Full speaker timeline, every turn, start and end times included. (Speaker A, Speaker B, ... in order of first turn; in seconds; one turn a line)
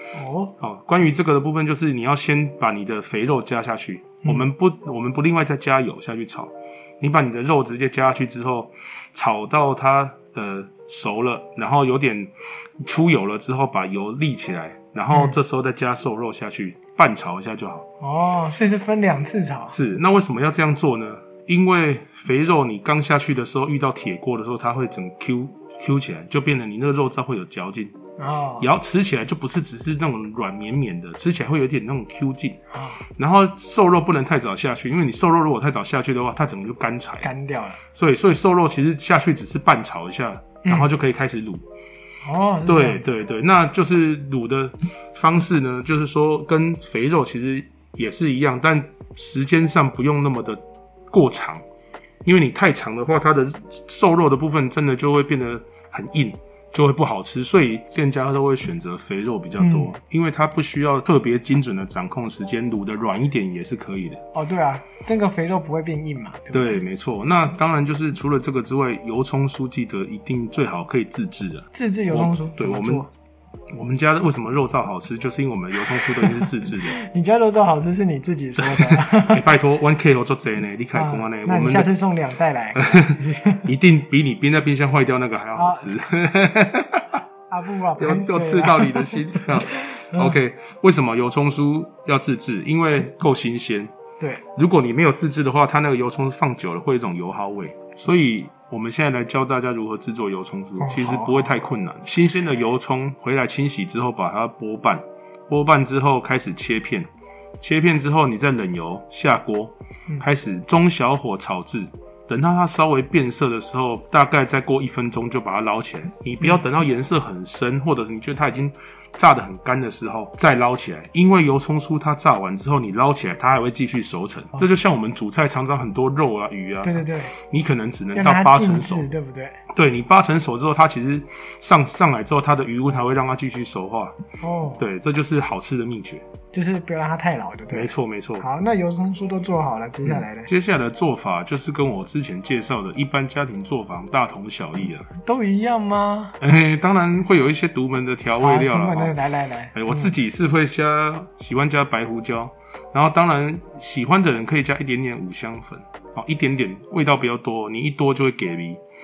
Speaker A: 0.1-0.5
Speaker B: 0.6-17.9
Speaker A: 18.0-19.8
Speaker B: 19.7-28.0
Speaker A: 28.2-28.7
Speaker B: 28.6-37.3
Speaker A: 32.7-33.0
Speaker A: 37.2-37.8
Speaker B: 37.9-41.6
Speaker A: 40.6-40.9
Speaker A: 42.2-43.0
Speaker B: 42.6-51.6
Speaker B: 52.2-64.2
Speaker A: 59.6-59.9
Speaker A: 64.3-66.8
Speaker B: 66.5-73.1
Speaker A: 71.7-73.1
Speaker B: 73.7-77.0
Speaker A: 76.0-79.5
Speaker B: 78.6-81.9
Speaker A: 80.9-83.7
Speaker B: 82.8-87.2
Speaker A: 85.6-86.0
Speaker A: 87.5-90.4
Speaker B: 88.0-93.9
Speaker B: 94.5-107.1
Speaker A: 100.8-101.6
Speaker B: 107.6-129.1
Speaker A: 126.8-127.3
Speaker A: 128.1-129.6
Speaker B: 129.7-134.2
Speaker A: 134.4-134.8
Speaker B: 134.8-136.3
Speaker A: 136.5-140.5
Speaker B: 137.7-138.4
Speaker B: 140.0-145.1
Speaker A: 145.2-146.4
Speaker B: 146.4-149.2
Speaker A: 148.4-150.1
Speaker B: 149.7-158.8